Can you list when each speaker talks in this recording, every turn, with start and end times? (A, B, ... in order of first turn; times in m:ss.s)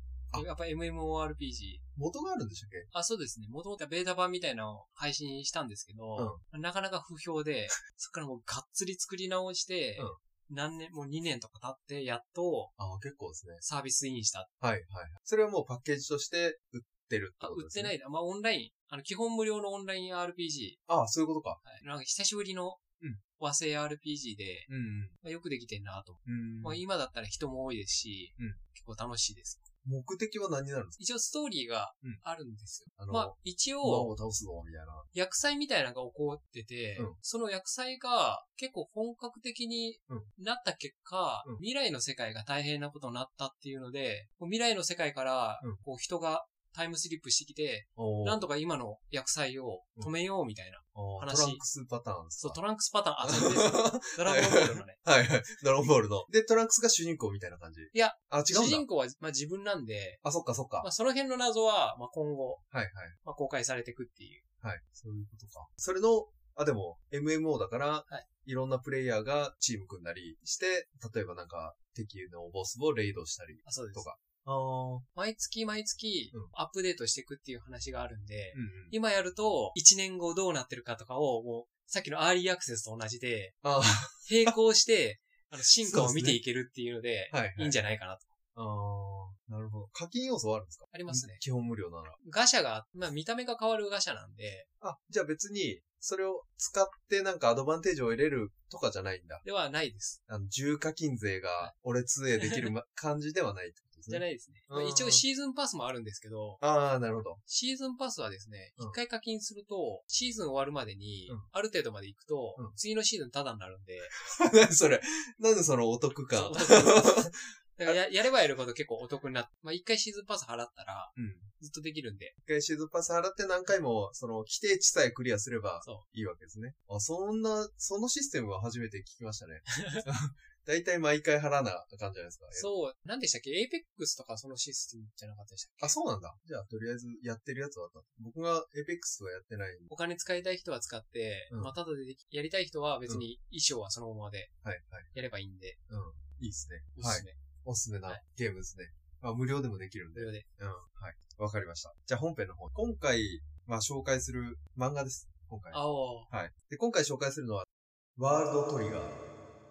0:00.3-0:01.8 A
0:02.0-0:02.9 B
0:02.9-0:12.7 A
0:12.8-0:13.6 B
0:13.6-0:14.5 A
0:14.6-0:17.9 B
0:17.4-0:20.8 A
0:20.9-0:21.6 B
0:21.6-0:22.8 A
0:23.4-0:24.7 A
0:24.7-0:25.2 B
0:25.2-0:29.7 A
0:26.2-0:26.8 B
0:29.8-0:31.0 B
0:31.0-0:34.1 A
0:33.0-0:35.1 B
0:35.1-0:51.6 A
0:48.0-0:48.4 B
0:50.9-0:52.6 B
0:52.4-0:55.0 A
0:53.2-0:58.8 B
0:57.9-1:00.2 A
1:00.2-1:00.9 B
1:00.8-1:02.6 A
1:02.7-1:03.2 B
1:03.2-1:04.4 A
1:04.6-1:15.0 B
1:13.6-1:14.0 A
1:15.1-1:23.6 A
1:18.5-1:18.9 B
1:23.6-1:24.5 B
1:24.2-1:28.3 A
1:25.8-1:26.4 B
1:27.3-1:27.8 B
1:28.5-1:32.2 B
1:30.9-1:31.4 A
1:32.2-1:34.7 A
1:34.8-1:39.4 B
1:39.4-1:40.2 A
1:40.3-1:45.2 B
1:42.4-1:42.6 A
1:44.1-1:46.6 A
1:46.6-1:47.4 B
1:47.4-1:54.1 A
1:54.2-1:58.0 B
1:56.3-2:02.4 A
2:01.1-2:01.5 B
2:02.4-2:12.7 B
2:09.8-2:10.0 A
2:12.5-2:15.9 A
2:15.8-2:19.9 B
2:19.9-2:24.5 A
2:21.5-2:21.7 B
2:24.6-2:25.1 B
2:25.1-2:25.8 A
2:25.9-2:39.2 B
2:27.0-2:27.4 A
2:30.2-2:30.5 A
2:35.7-2:36.3 A